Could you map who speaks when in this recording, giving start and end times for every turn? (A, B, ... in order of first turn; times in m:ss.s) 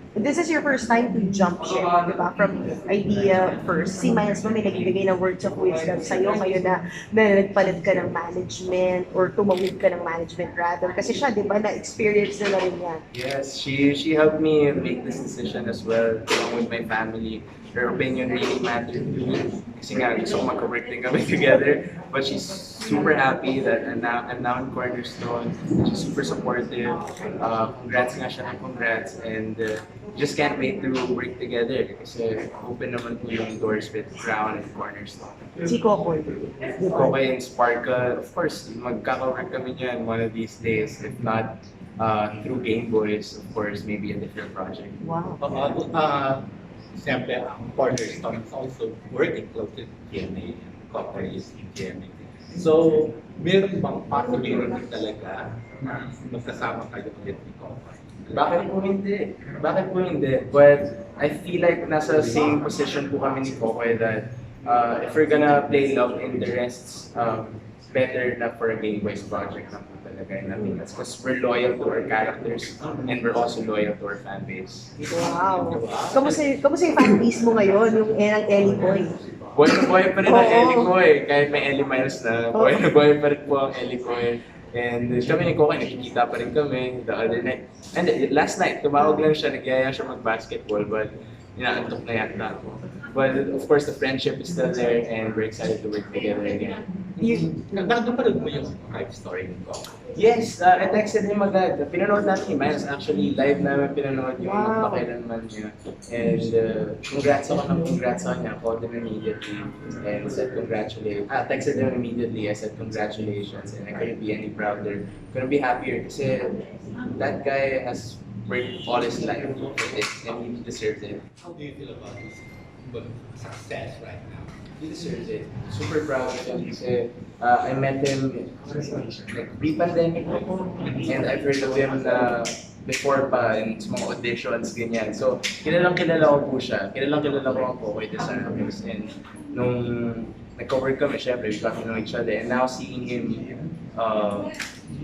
0:00.2-0:13.0 A
0:01.7-0:02.2 B
0:05.7-0:06.6 B
0:13.1-0:35.4 B
0:35.6-0:37.0 A
0:36.8-0:45.0 B
0:45.0-0:45.4 A
0:45.4-0:55.6 C
0:56.2-0:58.5 C
0:58.3-1:15.0 B
1:15.1-1:20.9 A
1:15.8-1:16.2 C
1:15.8-1:16.4 B
1:19.5-1:36.8 B
1:22.5-1:22.8 A
1:29.0-1:29.2 A
1:37.2-1:40.0 C
1:37.2-1:37.9 A
1:40.1-2:01.2 B
1:44.4-1:45.1 A
2:01.4-2:04.5 C
2:04.8-2:24.5 B